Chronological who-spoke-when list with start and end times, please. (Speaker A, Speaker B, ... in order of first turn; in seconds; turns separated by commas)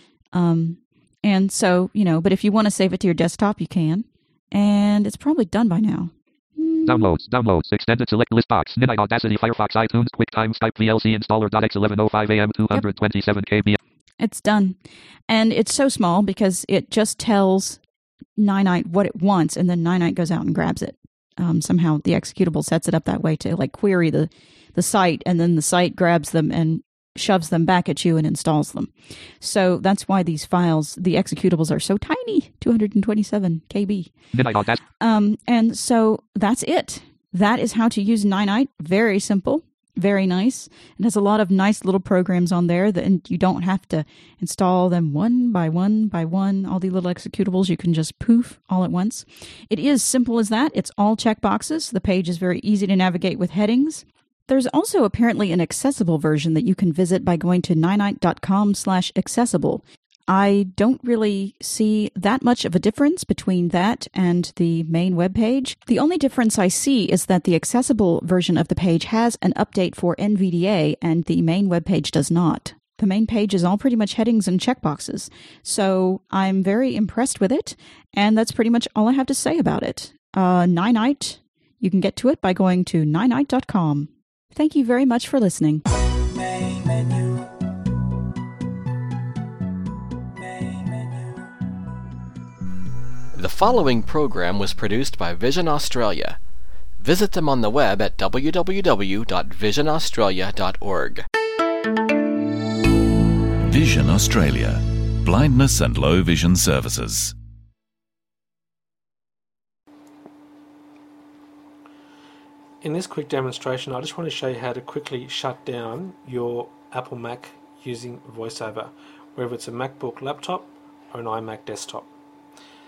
Speaker A: 0.3-7.1, Speaker B: 6.9-13.8, Speaker A: 14.2-14.8, Speaker A: 15.3-17.8, Speaker A: 18.4-34.1, Speaker B: 34.3-34.8, Speaker A: 35.0-85.8, Speaker C: 93.3-96.4, Speaker C: 97.0-101.2, Speaker D: 103.6-107.3, Speaker E: 112.8-122.1